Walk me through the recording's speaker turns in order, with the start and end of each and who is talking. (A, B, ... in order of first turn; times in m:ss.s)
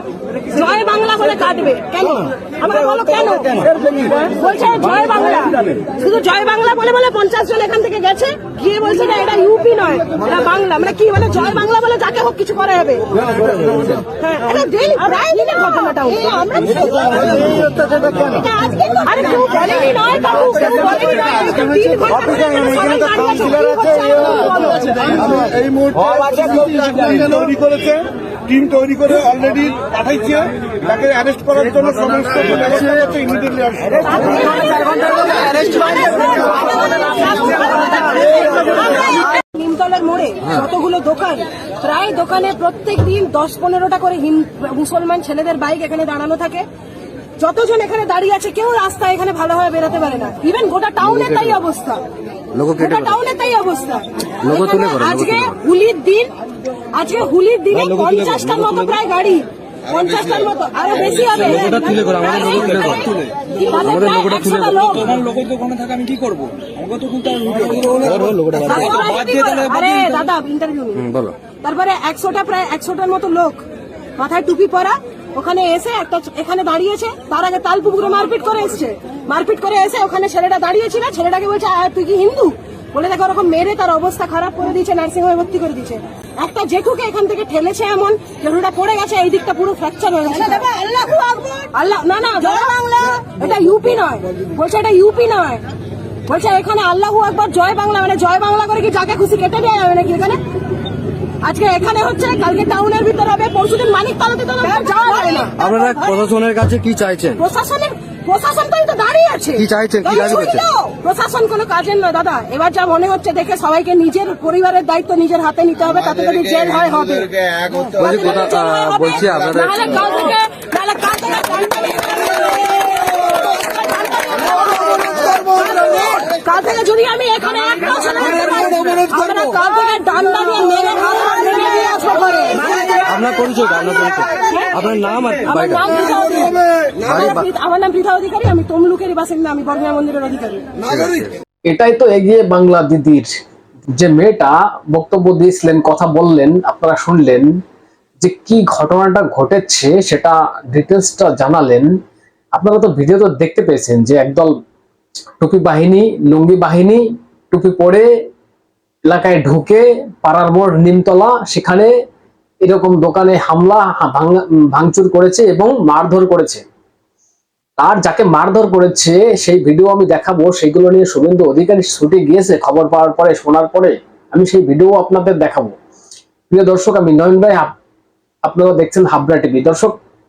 0:00.4-0:13.1 A
0:13.4-0:13.9 B
0:14.2-0:25.5 A
0:25.8-0:33.8 C
0:32.1-0:33.1 B
0:33.9-0:46.6 A
0:47.4-0:52.0 A
0:51.0-0:51.6 B
0:52.5-0:53.2 B
0:52.7-0:56.3 A
0:54.4-0:55.6 B
0:56.9-1:05.2 A
0:57.8-0:59.0 B
1:01.4-1:03.2 B
1:03.8-1:05.0 B
1:05.2-1:08.0 D
1:07.4-1:07.9 C
1:07.9-1:08.8 B
1:08.6-1:13.6 A
1:11.0-1:11.4 B
1:14.2-1:35.6 A
1:36.2-1:40.4 A
1:41.4-1:46.1 A
1:45.6-1:47.4 B
1:47.4-2:13.0 A
1:49.6-1:50.6 B
1:58.0-1:59.8 B
2:13.0-2:15.8 B
2:14.4-2:14.8 A
2:15.4-2:20.8 A
2:17.0-2:17.4 B
2:20.9-2:21.3 B
2:21.7-2:23.3 E
2:23.9-2:27.5 E
2:28.2-2:31.9 E
2:32.5-2:34.6 E
2:35.4-2:38.1 E
2:39.0-2:41.9 E
2:42.6-2:46.6 E
2:47.8-2:55.7 E
2:56.5-2:57.7 E
2:58.4-2:59.9 E